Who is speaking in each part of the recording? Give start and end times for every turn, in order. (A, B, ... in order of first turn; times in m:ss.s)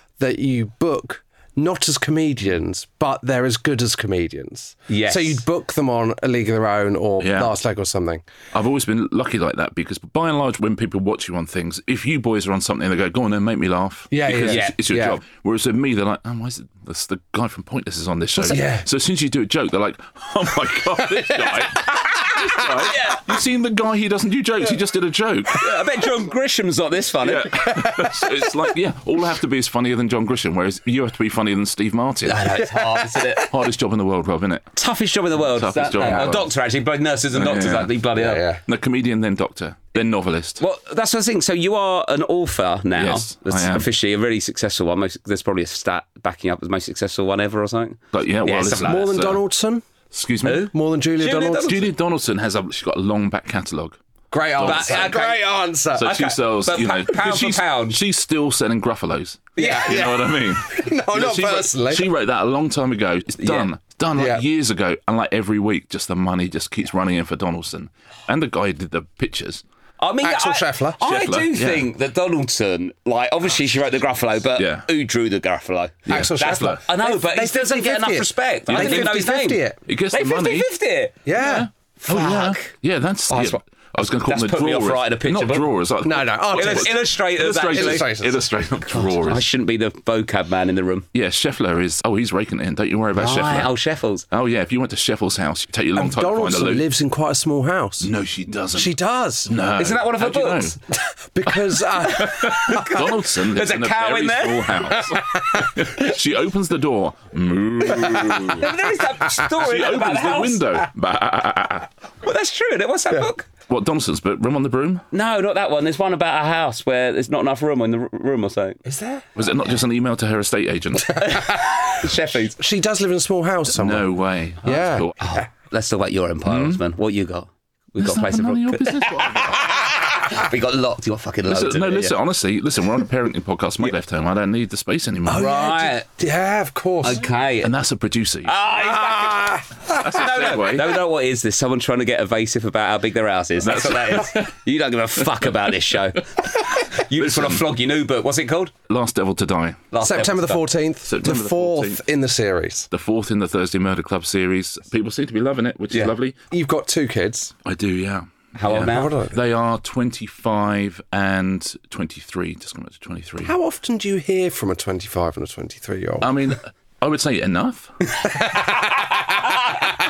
0:00.2-0:08.2 A
0:04.9-0:05.4 B
0:07.2-0:07.5 C
0:08.5-0:25.7 C
0:14.1-0:15.2 A
0:14.5-0:14.8 B
0:18.4-0:18.9 A
0:21.2-0:22.7 A
0:22.8-0:23.2 B
0:25.6-0:27.6 B
0:27.2-0:32.4 C
0:27.6-0:28.5 A
0:32.2-0:33.5 B
0:32.5-0:33.3 A
0:33.4-0:34.7 C
0:34.7-0:38.5 B
0:35.4-0:36.5 C
0:36.0-0:36.4 A
0:37.3-0:38.0 C
0:38.2-0:38.6 A
0:38.6-0:40.6 C
0:40.6-0:49.0 B
0:43.0-0:43.9 C
0:48.1-0:49.4 C
0:48.8-0:49.8 A
0:50.1-0:50.7 C
0:50.4-0:51.8 B
0:50.7-0:51.9 A
0:51.4-0:55.2 C
0:54.3-0:56.3 A
0:54.6-0:55.4 B
0:55.9-1:09.6 C
0:56.0-0:58.0 B
0:59.6-1:00.0 B
0:59.6-1:02.1 A
1:03.4-1:03.7 B
1:04.1-1:04.4 A
1:10.0-1:21.2 B
1:10.2-1:11.0 A
1:11.0-1:11.9 C
1:14.6-1:14.9 C
1:16.1-1:16.8 C
1:16.1-1:19.8 A
1:18.7-1:19.3 C
1:19.8-1:20.7 C
1:21.2-1:21.7 A
1:21.3-1:29.5 C
1:22.0-1:22.7 B
1:23.3-1:25.7 B
1:26.0-1:27.0 A
1:26.5-1:28.1 B
1:27.6-1:28.4 A
1:28.9-1:31.1 B
1:31.1-1:33.7 C
1:33.2-1:34.2 B
1:34.3-1:36.9 C
1:35.9-1:38.1 A
1:38.0-1:40.8 C
1:38.7-1:39.5 A
1:39.8-1:40.8 B
1:40.9-1:42.9 A
1:41.4-1:48.7 C
1:42.1-1:44.9 B
1:44.9-1:45.7 A
1:47.9-1:48.6 A
1:48.5-1:50.8 B
1:49.3-1:51.9 C
1:52.2-1:53.5 B
1:53.7-1:55.0 C
1:55.1-1:58.8 B
1:58.8-1:59.3 A
1:59.3-2:01.5 C
2:01.2-2:02.6 B
2:02.6-2:04.1 A
2:03.7-2:05.3 C
2:04.6-2:05.5 A
2:05.2-2:12.1 B
2:06.4-2:06.8 C
2:08.0-2:09.7 C
2:11.5-2:15.8 C
2:15.2-2:17.2 A
2:15.4-2:16.0 B
2:17.0-2:17.7 B
2:17.6-2:18.5 C
2:18.4-2:28.7 B
2:18.7-2:20.0 A
2:19.9-2:21.0 C
2:23.6-2:24.5 C
2:26.5-2:27.7 C
2:28.9-2:29.9 C
2:29.9-2:30.6 B
2:30.0-2:32.9 A
2:31.0-2:32.0 C
2:32.9-2:36.4 C
2:36.5-2:37.5 A
2:37.6-2:43.6 C
2:38.5-2:39.2 B
2:38.8-2:39.4 A
2:43.4-2:46.3 A
2:46.2-2:47.9 C
2:48.3-2:48.9 A